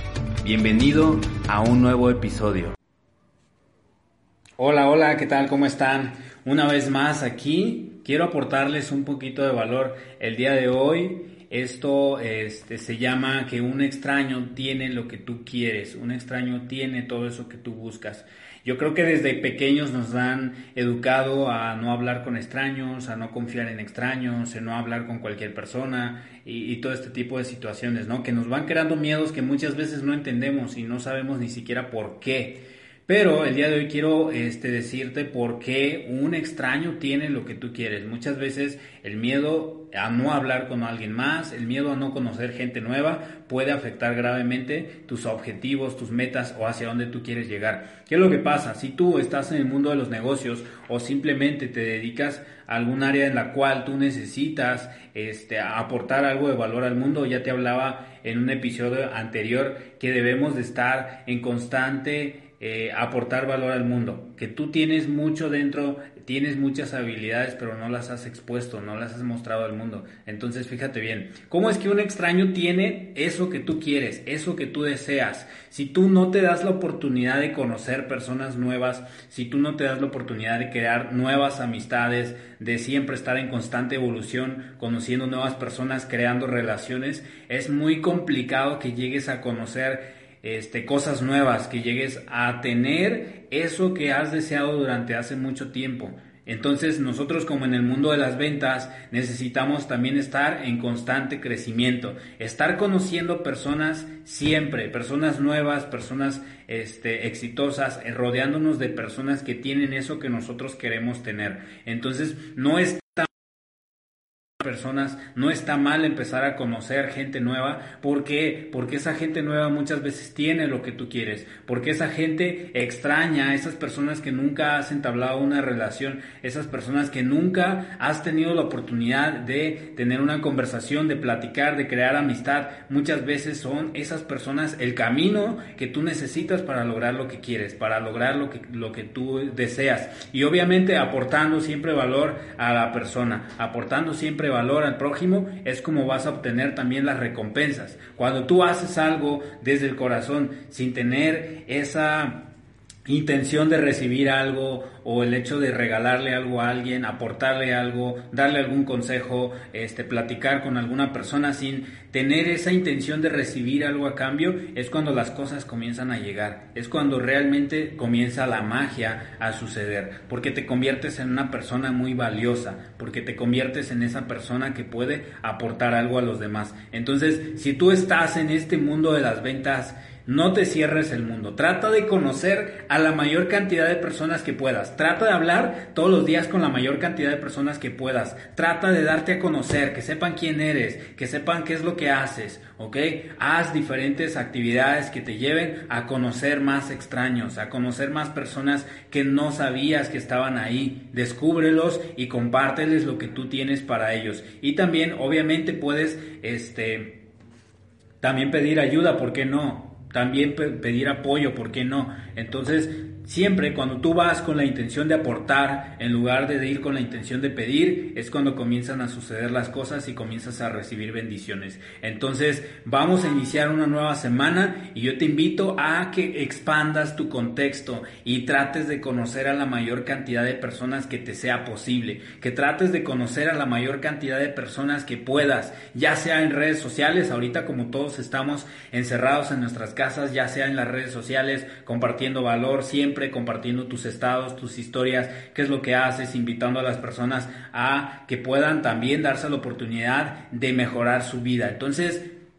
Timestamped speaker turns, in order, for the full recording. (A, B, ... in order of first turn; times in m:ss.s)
0:00.4-0:02.8 A
0:04.6-1:53.3 A
1:54.6-2:32.5 A
2:33.1-3:27.2 A
3:28.2-4:12.2 A